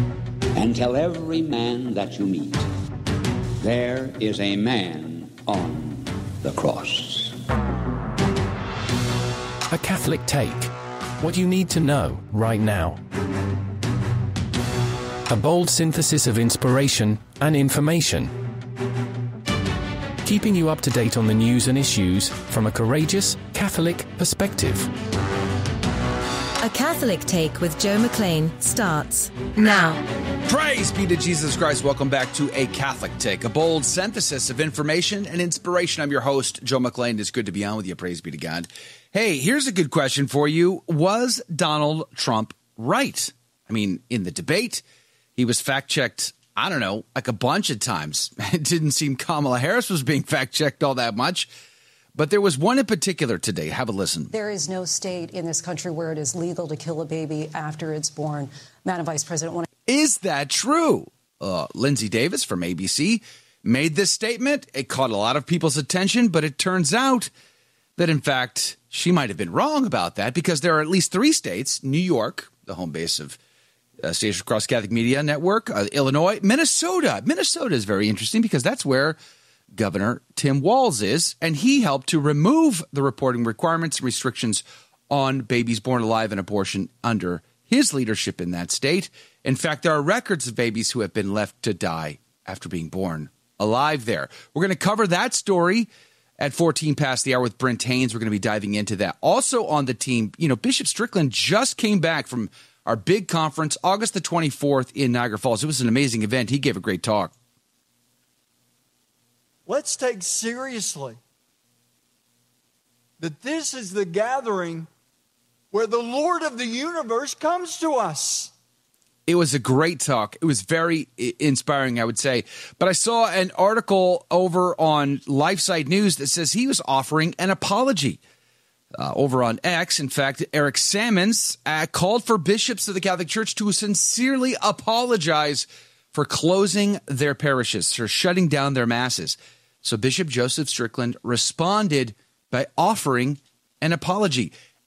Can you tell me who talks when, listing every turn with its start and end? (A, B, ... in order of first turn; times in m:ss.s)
0:00.6-0:02.7 A
0:03.6-0:07.3 A
0:09.7-0:13.0 B
0:15.3-0:18.3 B
0:20.2-0:24.9 B
0:26.6-0:30.0 C
0:30.4-0:44.8 D
0:45.4-0:51.5 D
0:52.2-0:54.3 D
0:54.3-0:59.7 E
0:59.9-1:07.3 D
1:08.0-1:13.4 D
1:14.0-1:19.2 D
1:19.7-1:47.3 D
1:49.7-1:51.2 F
1:53.2-1:54.9 F
1:55.7-1:58.5 F
1:59.3-2:08.2 D
2:09.0-2:24.5 D